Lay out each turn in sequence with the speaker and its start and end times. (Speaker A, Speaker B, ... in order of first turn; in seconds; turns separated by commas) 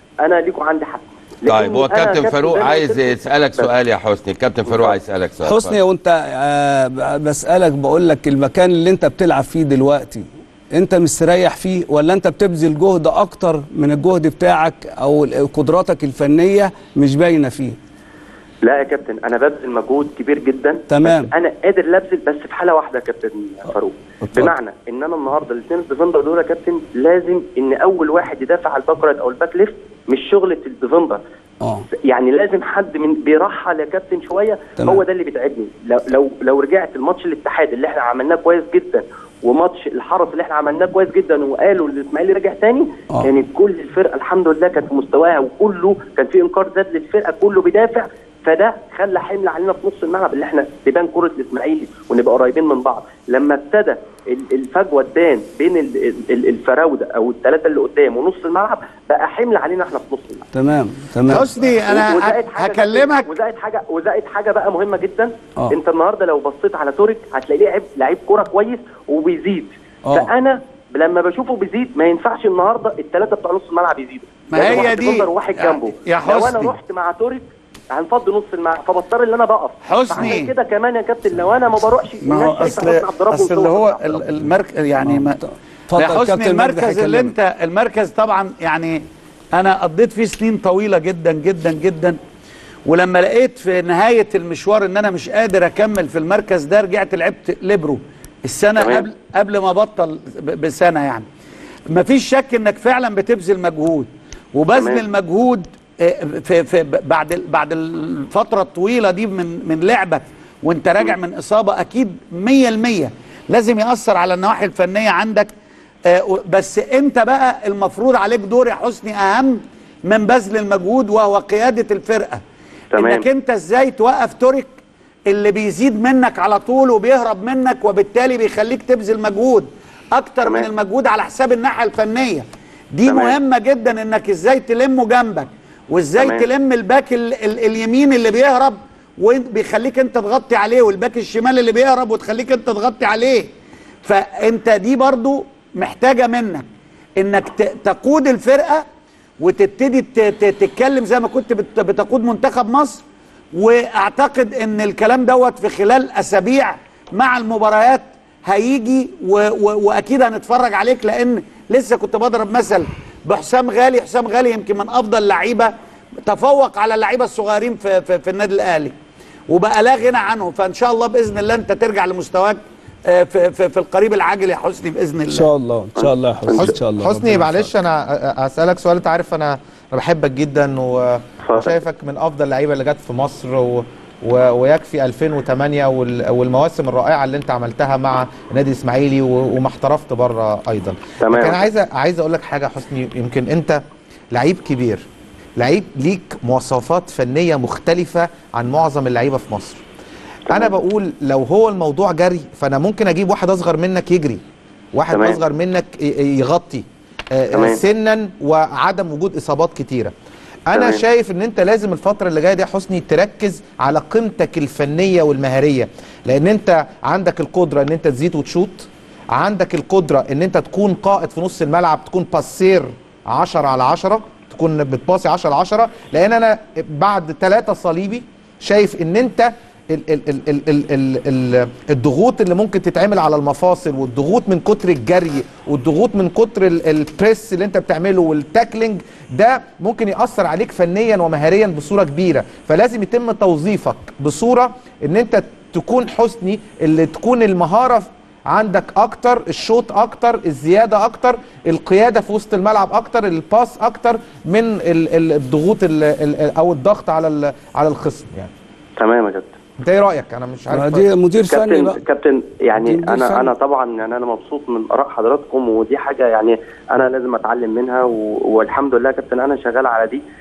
Speaker A: 0.2-3.7, Speaker B: 1.5-5.8, Speaker A: 4.7-5.0, Speaker C: 5.4-17.8, Speaker A: 18.6-31.2, Speaker C: 20.9-21.3, Speaker A: 32.1-60.5, Speaker C: 60.5-61.5, Speaker D: 61.3-63.3, Speaker A: 61.6-84.2, Speaker D: 74.5-76.7, Speaker D: 79.8-80.5, Speaker D: 82.2-85.4, Speaker C: 85.0-85.3, Speaker C: 85.9-87.3, Speaker D: 85.9-89.0, Speaker D: 89.5-92.2, Speaker D: 92.8-101.3, Speaker A: 98.8-99.1, Speaker D: 101.9-115.5, Speaker A: 104.7-105.0, Speaker D: 116.1-122.4, Speaker A: 122.9-123.2, Speaker D: 122.9-124.7, Speaker D: 125.3-143.5, Speaker A: 130.4-130.7, Speaker A: 133.1-133.4, Speaker A: 136.2-136.5, Speaker D: 144.0-146.7, Speaker D: 147.2-148.8, Speaker D: 149.4-165.7, Speaker D: 166.2-168.9, Speaker D: 169.5-175.5, Speaker C: 175.3-177.7, Speaker A: 175.9-176.7, Speaker E: 176.5-193.8, Speaker A: 181.4-181.7, Speaker A: 191.2-191.6, Speaker E: 194.3-195.0, Speaker E: 195.6-199.8, Speaker A: 200.5-200.7, Speaker E: 200.5-204.4, Speaker E: 204.9-210.1, Speaker A: 205.1-205.4, Speaker A: 207.5-207.8, Speaker E: 210.7-258.5, Speaker A: 210.7-211.0, Speaker A: 259.0-259.5, Speaker E: 259.8-261.1, Speaker C: 260.7-262.0, Speaker A: 261.5-270.2, Speaker C: 262.8-263.5